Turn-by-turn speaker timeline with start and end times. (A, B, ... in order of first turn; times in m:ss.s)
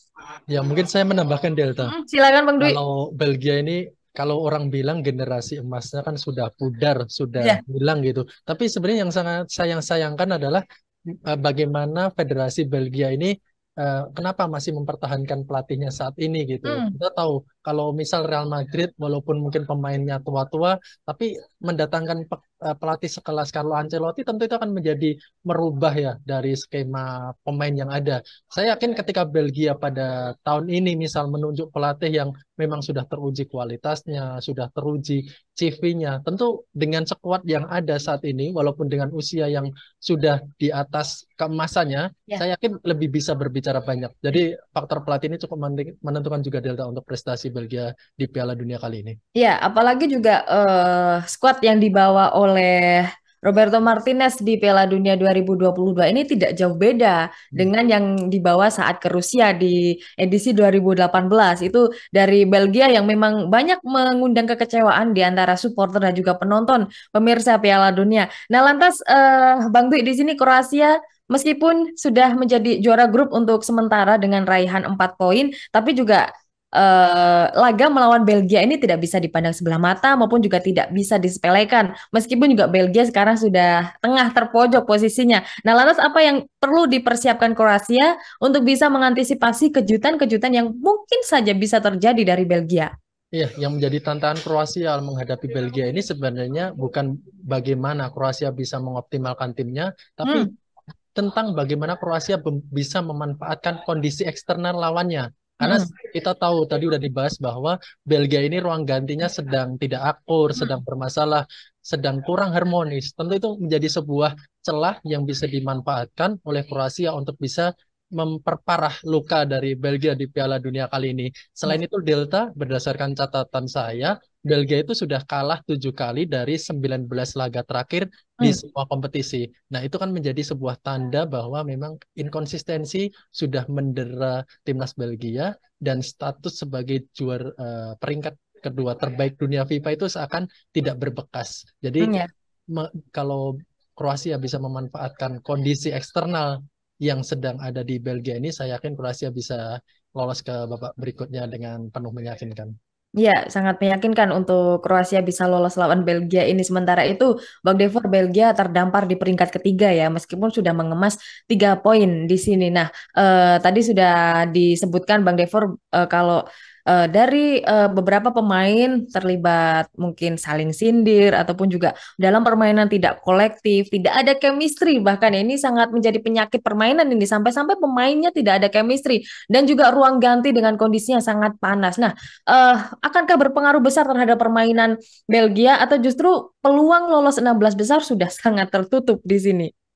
0:00.5-0:01.9 A
0:01.8-0:02.8 B
0:02.6-0:10.6 A
0:11.3-0:49.2 A
0:16.6-0:16.9 B
0:49.4-1:32.9 B
1:33.3-1:40.5 A
1:41.2-2:22.1 A
1:45.6-1:45.9 B
2:22.0-2:22.3 B
2:22.7-2:29.6 A
2:30.2-2:32.7 A
2:33.2-3:09.7 B